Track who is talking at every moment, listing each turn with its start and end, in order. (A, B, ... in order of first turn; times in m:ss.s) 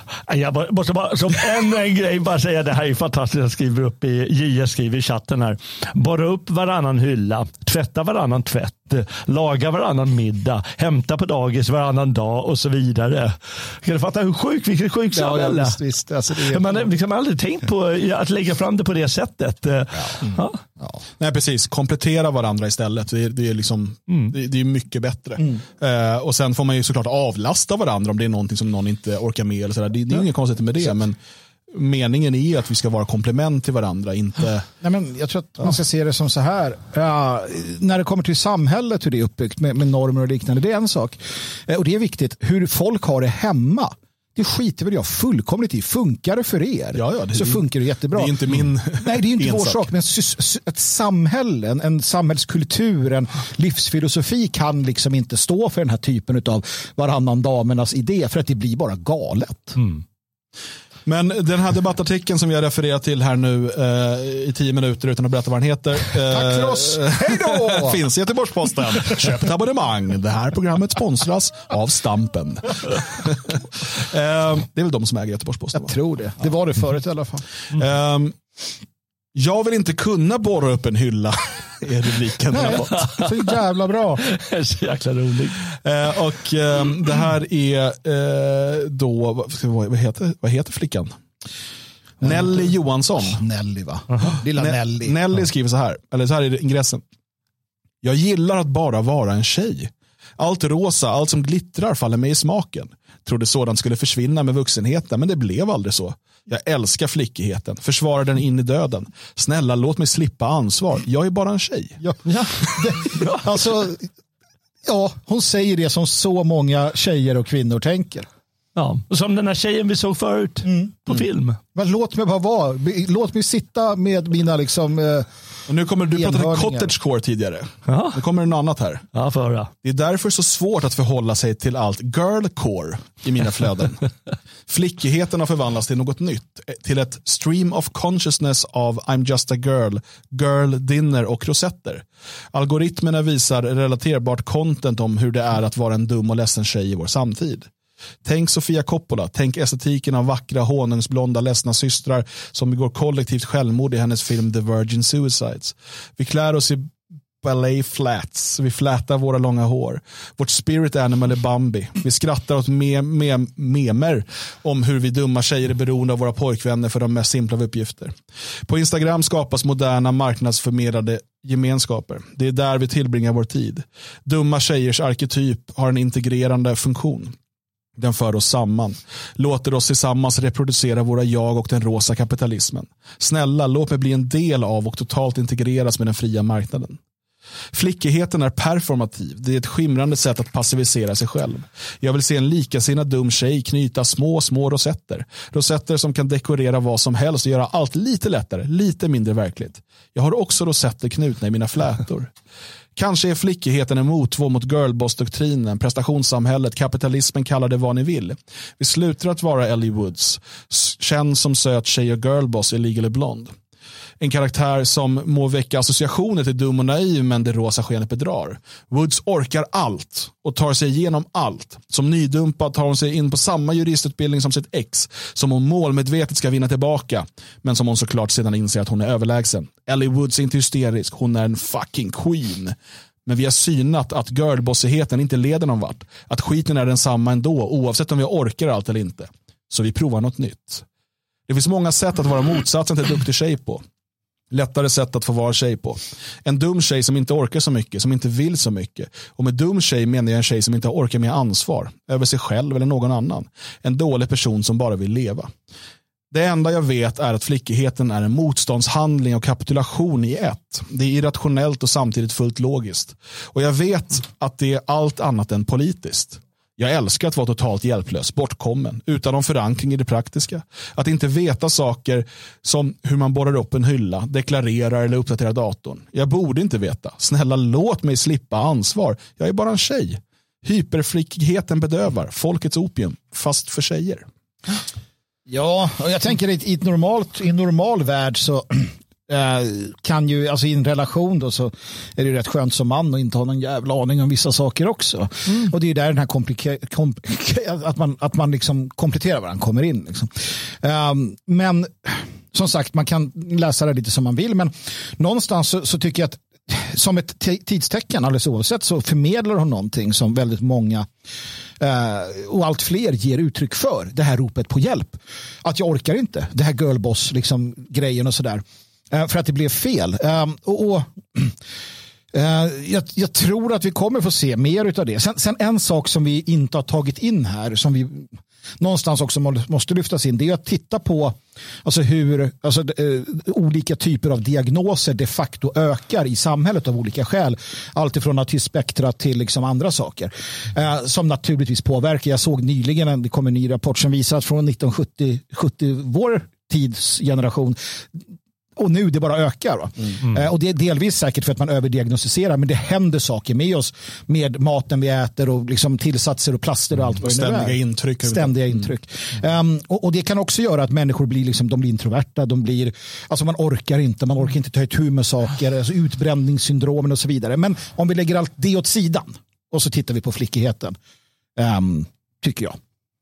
0:00.3-0:15.8 A
0:15.1-0:16.8 B
0:16.4-0:20.6 A
0:21.2-0:31.2 C
0:31.7-0:34.7 C
0:34.8-0:59.8 B
0:46.9-0:49.8 C
1:01.0-1:15.9 C
1:06.3-1:08.0 B
1:15.7-1:17.4 B
1:17.7-1:18.4 C
1:19.3-1:23.1 C
1:22.5-1:24.2 B
1:22.9-1:23.3 A
1:24.2-1:25.6 A
1:25.7-1:31.1 C
1:32.2-1:32.7 B
1:32.2-1:33.4 C
1:33.3-1:35.2 B
1:34.6-1:37.0 C
1:38.0-1:52.0 C
1:52.2-1:53.4 A
1:52.7-1:54.1 B
1:54.8-1:58.3 B
1:58.8-2:01.6 A
2:00.6-2:01.0 B
2:01.7-2:05.3 B
2:05.7-2:09.0 C
2:06.1-2:06.9 B
2:07.9-2:08.2 A
2:09.1-2:09.7 A
2:09.8-2:14.0 C
2:14.7-2:27.7 C
2:28.2-2:48.1 C
2:48.7-2:57.3 C
2:58.0-3:07.0 C
3:07.7-3:22.3 C
3:22.9-3:33.5 C
3:34.2-3:52.7 C
3:53.2-4:00.8 C
4:01.5-4:03.8 C
4:04.5-4:15.5 C
4:16.3-4:44.2 C
4:45.5-5:11.1 B
5:11.8-5:21.6 B
5:22.3-5:48.2 B
5:48.8-6:11.0 B
5:57.2-5:58.9 C
6:11.6-6:12.8 B